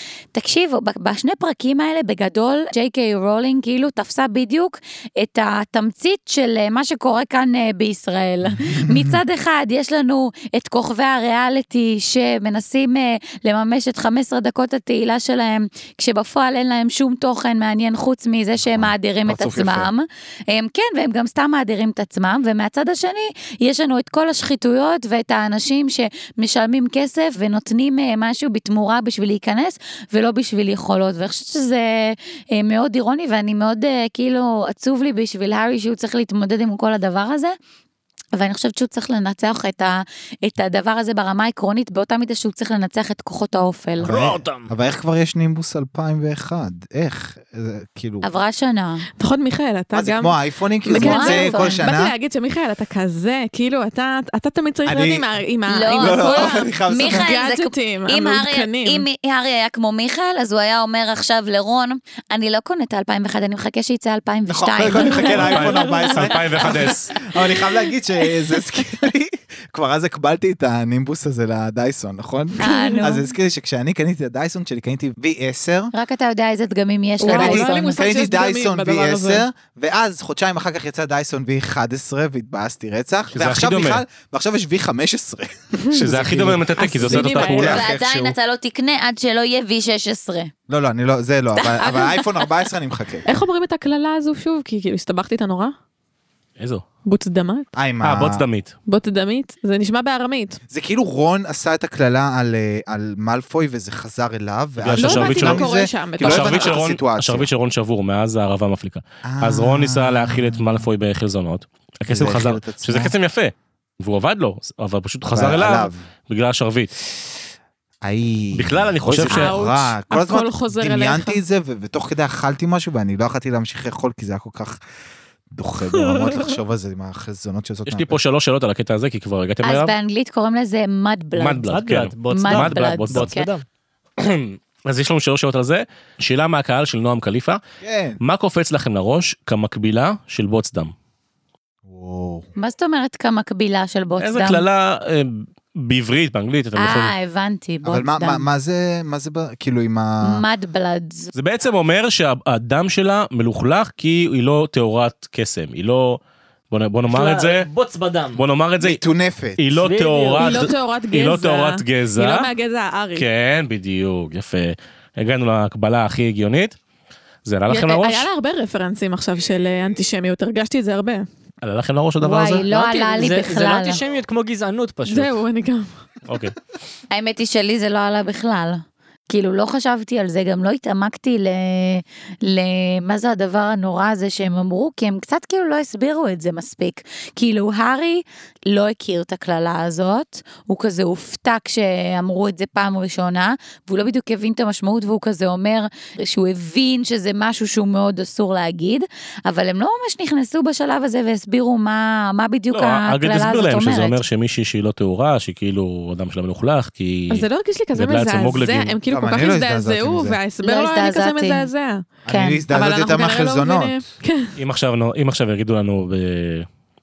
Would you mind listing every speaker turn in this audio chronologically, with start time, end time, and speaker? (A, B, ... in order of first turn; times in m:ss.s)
0:00.3-0:37.6 A
0:08.5-0:09.2 B
0:18.6-0:19.9 B
0:38.4-0:44.1 A
0:44.0-0:48.3 B
0:44.1-0:44.7 C
0:48.2-0:49.1 A
0:49.2-0:50.3 D
0:49.9-0:52.1 B
0:50.9-0:51.8 A
0:50.9-0:59.1 D
0:54.9-0:55.2 B
0:55.7-1:05.7 A
0:56.0-0:57.3 B
1:04.5-1:15.9 B
1:04.9-1:06.1 D
1:05.2-1:07.1 E
1:12.6-1:13.1 D
1:12.6-1:13.2 A
1:15.9-1:18.0 A
1:17.2-1:19.4 D
1:17.2-1:28.4 B
1:23.3-1:24.0 E
1:25.9-1:27.8 E
1:26.8-1:27.7 D
1:27.7-1:30.5 A
1:30.7-1:33.3 B
1:33.3-1:35.7 D
1:36.6-1:36.8 E
1:37.1-1:37.7 D
1:37.8-1:38.4 B
1:38.0-1:38.7 E
1:38.9-1:40.6 D
1:40.7-1:47.5 B
1:44.8-1:45.7 E
1:45.0-1:46.8 D
1:46.2-1:56.9 E
1:49.2-1:50.9 B
1:52.1-1:53.1 B
1:55.3-1:56.0 B
1:58.0-2:04.8 B
1:58.6-1:59.6 E
1:59.3-2:01.4 D
2:05.5-2:08.2 B
2:06.0-2:06.6 D
2:07.9-2:09.9 E
2:09.6-2:11.7 A
2:11.4-2:13.4 E
2:11.7-2:13.6 C
2:12.3-2:13.5 A
2:14.2-2:17.6 E
2:17.8-2:18.2 B
2:18.2-2:20.9 E
2:21.8-2:22.5 B
2:22.6-2:24.6 A
2:24.2-2:27.1 E
2:26.8-2:28.4 A
2:27.8-2:30.4 B
2:30.2-2:31.3 A
2:31.3-2:37.7 E
2:37.1-2:38.4 C
2:38.4-2:39.0 E
2:38.8-2:39.7 B
2:39.6-2:42.5 E
2:39.8-2:40.7 C
2:40.4-2:43.2 D
2:43.2-2:46.8 E
2:47.4-2:48.3 E
2:47.7-2:51.2 D
2:51.6-2:53.4 E
2:52.2-2:54.0 A
2:52.9-2:55.4 C
2:55.1-2:55.9 D
2:56.3-2:56.6 E
2:57.1-3:24.2 A
3:22.7-3:29.0 E
3:27.3-3:32.0 D
3:29.1-3:30.4 B
3:30.6-3:31.7 A
3:32.2-3:34.0 B
3:32.3-3:32.6 A
3:32.7-3:34.5 D
3:34.6-3:36.7 E